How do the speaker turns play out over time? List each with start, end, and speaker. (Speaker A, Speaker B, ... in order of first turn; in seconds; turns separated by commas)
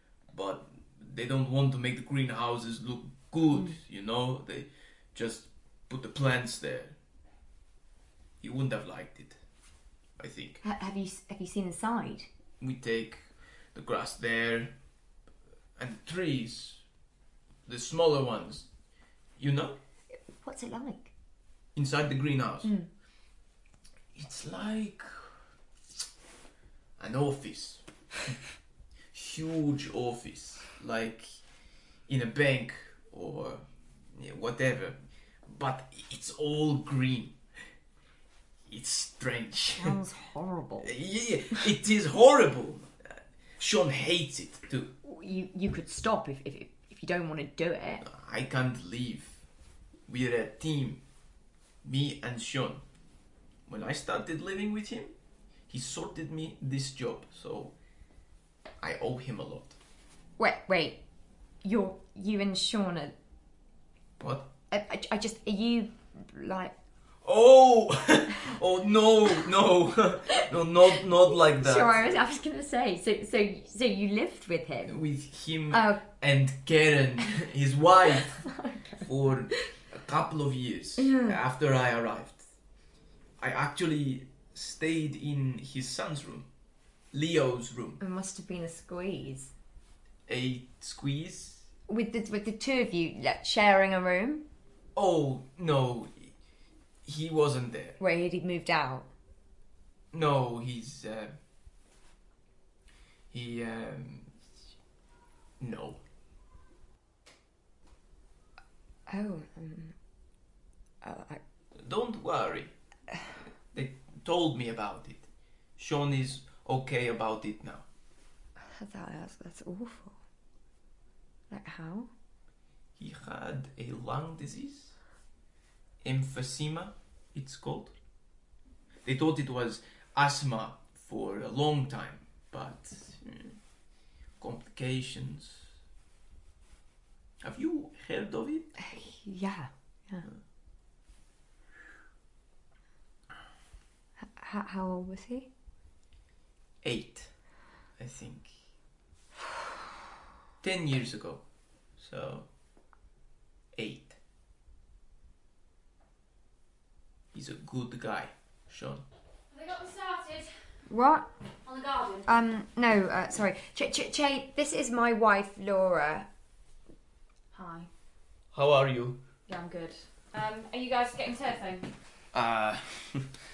Speaker A: 0.3-7.0, Speaker A: 8.4-9.4, Speaker A: 10.2-10.6, Speaker B: 10.6-12.3, Speaker A: 12.6-14.7, Speaker A: 15.8-16.8, Speaker A: 17.6-18.7, Speaker A: 19.4-19.8, Speaker B: 20.3-21.1, Speaker A: 21.7-22.7, Speaker B: 22.6-22.9, Speaker A: 24.1-25.3, Speaker A: 27.0-28.3, Speaker A: 29.1-31.4, Speaker A: 32.1-37.4, Speaker A: 38.7-40.0, Speaker B: 39.8-40.9, Speaker A: 40.8-44.9, Speaker B: 45.0-48.0, Speaker A: 48.0-49.4, Speaker A: 50.1-51.0, Speaker A: 51.8-52.8, Speaker A: 53.7-55.1, Speaker A: 55.7-57.7, Speaker A: 58.8-59.8, Speaker B: 60.4-61.0, Speaker B: 61.6-63.1, Speaker A: 64.2-64.5, Speaker B: 64.7-66.7, Speaker A: 67.2-72.2, Speaker B: 70.3-75.0, Speaker A: 74.9-78.4, Speaker B: 75.7-76.1, Speaker B: 78.4-79.7, Speaker A: 79.0-82.4, Speaker B: 81.0-81.4, Speaker A: 83.4-86.5, Speaker A: 87.1-88.0, Speaker B: 88.0-89.5, Speaker A: 90.3-91.7, Speaker B: 91.9-94.4, Speaker A: 94.9-96.3, Speaker A: 97.0-98.0, Speaker B: 98.0-99.1, Speaker A: 100.1-101.3, Speaker A: 103.3-104.5, Speaker A: 105.6-106.0, Speaker B: 109.1-109.9, Speaker B: 111.0-111.4, Speaker A: 111.8-112.7, Speaker A: 113.7-117.8, Speaker B: 118.6-120.1, Speaker B: 121.5-122.1, Speaker A: 123.0-125.0, Speaker A: 126.0-127.9, Speaker A: 129.0-133.6, Speaker A: 134.4-135.7, Speaker A: 137.4-138.7, Speaker B: 138.8-140.3, Speaker B: 144.2-145.5, Speaker A: 146.8-147.3, Speaker A: 148.0-148.5, Speaker A: 150.6-151.4, Speaker A: 152.0-152.5, Speaker A: 153.7-154.1, Speaker A: 157.3-159.0, Speaker C: 159.5-160.5, Speaker B: 160.9-161.3, Speaker C: 161.6-162.3, Speaker B: 162.3-166.3, Speaker C: 167.5-167.9, Speaker A: 168.5-169.2, Speaker C: 169.5-171.9, Speaker A: 172.3-173.3